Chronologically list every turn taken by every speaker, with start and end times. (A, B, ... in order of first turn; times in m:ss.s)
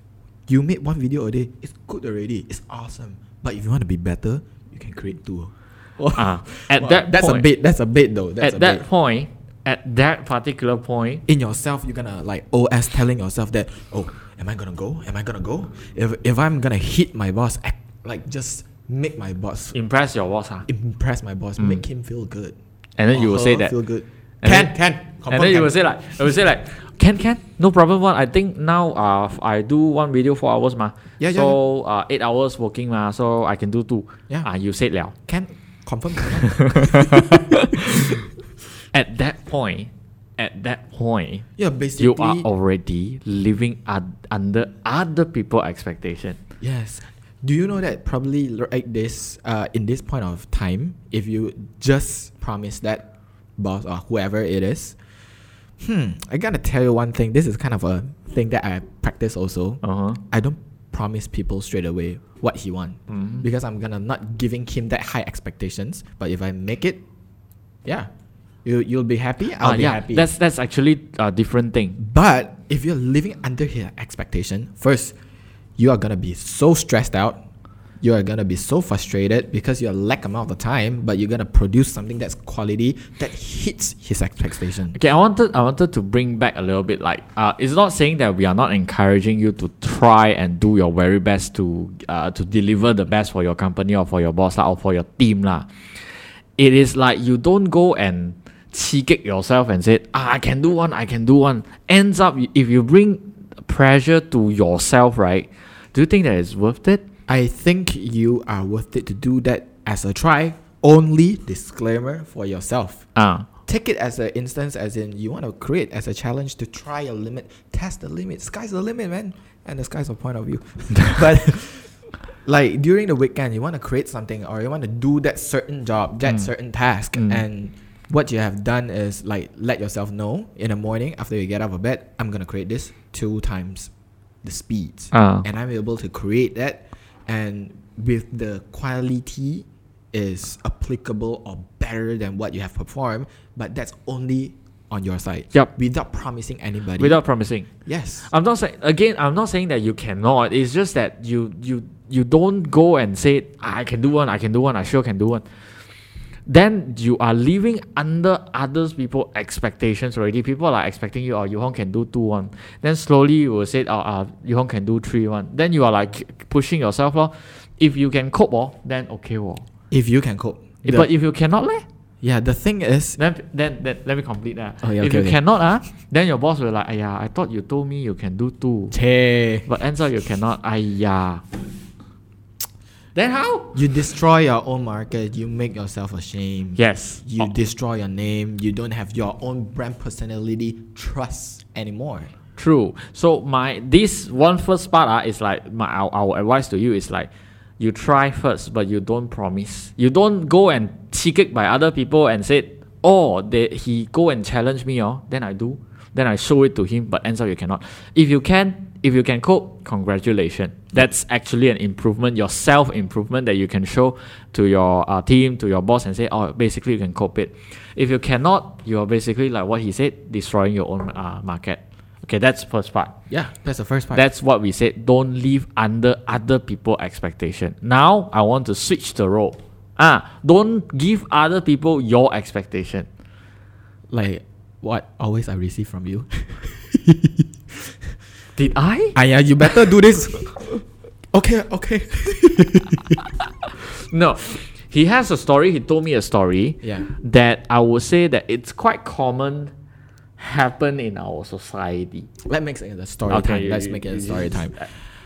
0:00.5-0:08.8 A
0:06.1-0:07.4 B
0:08.4-0:11.2 B
0:11.3-0:19.8 A
0:19.7-0:20.7 B
0:20.7-0:22.5 A
0:23.0-0:23.7 B
0:23.1-0:25.7 A
0:24.4-0:24.8 B
0:25.3-0:35.1 B
0:31.2-0:31.6 A
0:35.3-0:37.5 A
0:36.8-0:37.9 B
0:38.9-0:41.4 B
0:41.6-0:42.5 A
0:42.0-0:46.4 B
0:46.6-0:53.0 A
0:53.6-0:55.0 A
0:55.8-1:07.0 A
0:59.8-1:00.2 B
1:03.1-1:03.4 B
1:08.6-1:10.3 A
1:09.6-1:12.0 B
1:12.0-1:15.1 A
1:15.8-1:17.4 A
1:18.0-1:25.0 A
1:24.9-1:47.0 B
1:47.3-1:53.0 A
1:53.2-1:53.5 B
1:53.6-2:13.9 A
2:07.1-2:07.4 B
2:14.4-2:27.2 A
2:15.1-2:15.4 B
2:27.0-2:27.7 B
2:27.8-2:28.3 A
2:28.2-2:35.7 B
2:36.5-2:49.6 B
2:49.9-2:51.1 A
2:50.8-2:51.8 B
2:52.2-2:53.2 A
2:53.2-2:59.0 B
2:54.8-2:55.4 A
2:58.9-2:59.7 A
2:59.6-3:01.4 B
3:03.1-3:03.8 B
3:03.7-3:12.3 A
3:06.8-3:07.5 B
3:12.6-3:17.3 B
3:17.8-3:43.1 B
3:43.3-3:44.2 A
3:44.1-3:53.1 B
3:54.1-3:57.9 A
3:58.6-3:59.2 B
3:59.1-4:00.7 A
4:01.3-4:03.3 A
4:03.8-4:09.7 B
4:06.8-4:07.1 A
4:10.4-4:12.3 B
4:12.4-4:15.1 A
4:13.3-4:14.9 B